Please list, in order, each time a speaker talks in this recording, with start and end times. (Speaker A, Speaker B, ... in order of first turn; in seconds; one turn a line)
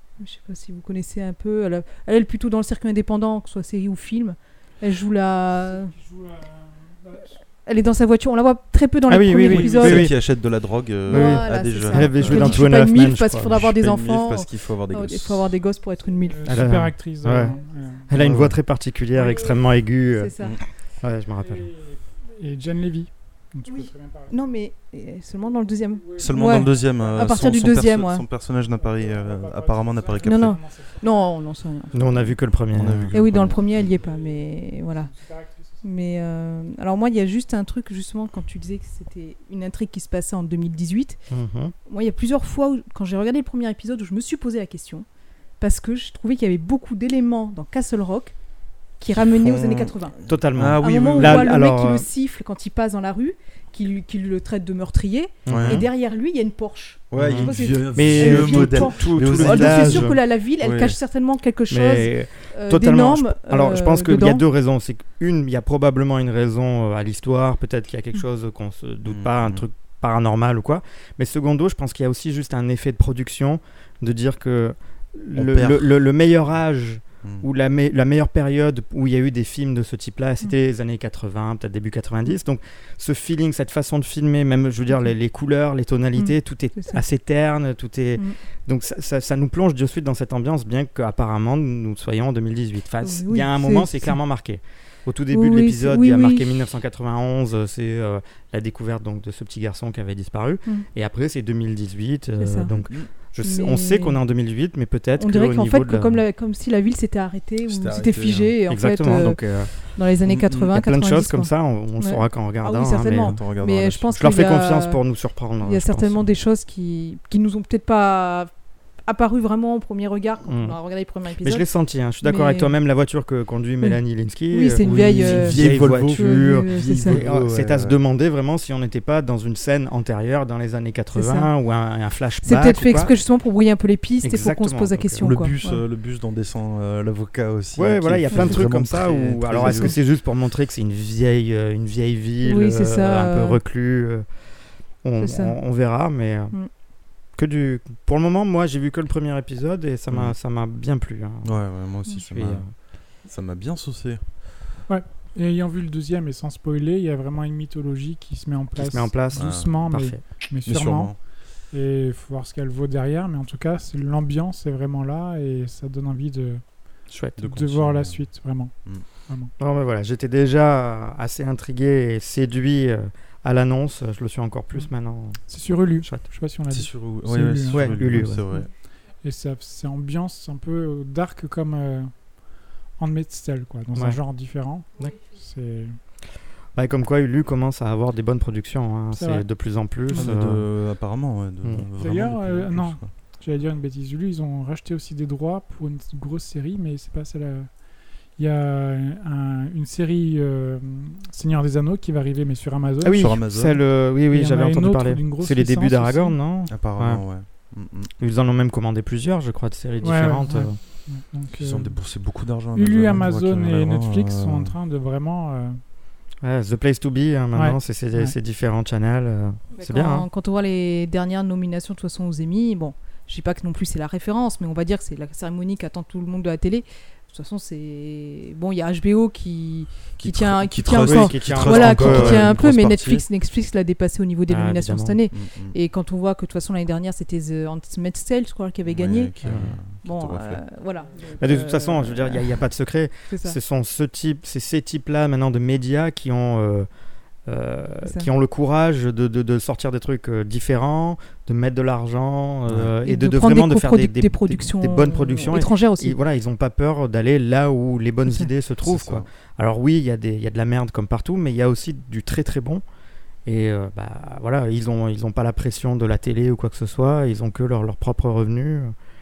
Speaker A: 0.2-6.0
Speaker B: 5.6-7.3
Speaker A: 7.6-10.2
Speaker C: 9.1-10.1
Speaker B: 9.4-10.0
Speaker D: 9.7-12.7
Speaker A: 11.0-16.7
Speaker C: 11.1-13.6
Speaker D: 13.5-15.6
Speaker B: 16.1-18.2
Speaker C: 16.4-20.3
Speaker D: 18.1-18.6
Speaker B: 19.1-19.9
Speaker A: 20.1-20.6
Speaker C: 21.0-21.7
Speaker B: 21.4-24.4
Speaker A: 23.6-28.2
Speaker B: 25.6-27.7
Speaker D: 26.2-30.6
Speaker B: 28.7-31.1
Speaker A: 30.2-32.3
Speaker C: 31.9-33.1
Speaker D: 32.7-33.8
Speaker A: 33.0-35.1
Speaker B: 33.8-35.9
Speaker A: 35.8-41.2
Speaker C: 41.3-41.7
Speaker A: 41.8-45.0
Speaker A: 45.6-48.3
Speaker A: 49.0-50.2
Speaker D: 49.1-51.6
Speaker C: 50.2-52.1
Speaker A: 50.8-64.4
Speaker C: 55.5-55.9
Speaker D: 55.5-55.9
Speaker D: 57.1-61.0
Speaker C: 57.1-60.2
Speaker C: 61.7-106.2
Speaker D: 69.0-69.6
Speaker D: 75.3-75.9
Speaker A: 86.2-87.0
Speaker A: 93.0-94.1
Speaker A: 95.3-96.7
Speaker A: 102.4-102.7
Speaker D: 102.7-103.1
Speaker A: 103.4-104.2
Speaker A: 105.1-115.0
Speaker D: 107.7-108.5
Speaker C: 108.7-109.7
Speaker D: 110.2-110.6
Speaker C: 110.5-113.4
Speaker D: 113.0-114.5
Speaker C: 114.2-116.2
Speaker A: 115.6-118.5
Speaker A: 119.0-121.7
Speaker C: 120.4-120.8
Speaker C: 121.4-133.1
Speaker A: 122.2-122.8
Speaker A: 123.8-127.2
Speaker D: 124.8-128.0
Speaker A: 131.1-131.5
Speaker A: 132.4-135.8
Speaker C: 134.2-135.3
Speaker D: 135.2-139.9
Speaker C: 137.7-144.2
Speaker A: 138.3-138.7
Speaker A: 139.6-139.9
Speaker A: 142.4-143.6
Speaker C: 145.0-146.6
Speaker A: 145.2-145.6
Speaker C: 147.3-151.7
Speaker D: 150.1-150.3
Speaker D: 151.4-154.2
Speaker C: 152.3-152.7
Speaker B: 154.9-161.2
Speaker C: 158.8-160.2
Speaker D: 159.3-159.9
Speaker D: 160.6-161.2
Speaker B: 161.7-166.6
Speaker C: 167.1-167.4
Speaker D: 167.4-168.2
Speaker B: 167.4-168.7
Speaker C: 169.6-176.2
Speaker B: 175.5-178.7
Speaker D: 176.7-178.7
Speaker C: 177.7-178.4
Speaker B: 179.2-186.0
Speaker C: 183.9-184.2
Speaker C: 186.7-190.7
Speaker B: 189.1-189.5
Speaker D: 190.1-193.0
Speaker B: 192.0-203.4
Speaker C: 203.0-207.2
Speaker D: 203.2-203.8
Speaker B: 204.3-206.4
Speaker D: 206.7-208.1
Speaker C: 208.2-210.8
Speaker B: 210.0-212.0
Speaker D: 211.5-214.7
Speaker B: 212.7-215.8
Speaker C: 216.4-220.3
Speaker B: 217.5-218.3
Speaker A: 219.7-239.4
Speaker D: 230.2-233.2
Speaker C: 230.9-232.5
Speaker C: 234.5-235.2
Speaker D: 235.3-235.8
Speaker D: 238.8-240.6
Speaker C: 239.4-239.7
Speaker A: 240.0-242.6
Speaker C: 241.4-246.9
Speaker A: 243.3-243.6
Speaker C: 247.5-262.8
Speaker A: 248.0-248.3
Speaker D: 252.7-252.9
Speaker A: 253.0-256.2
Speaker D: 258.8-259.3
Speaker C: 263.4-268.9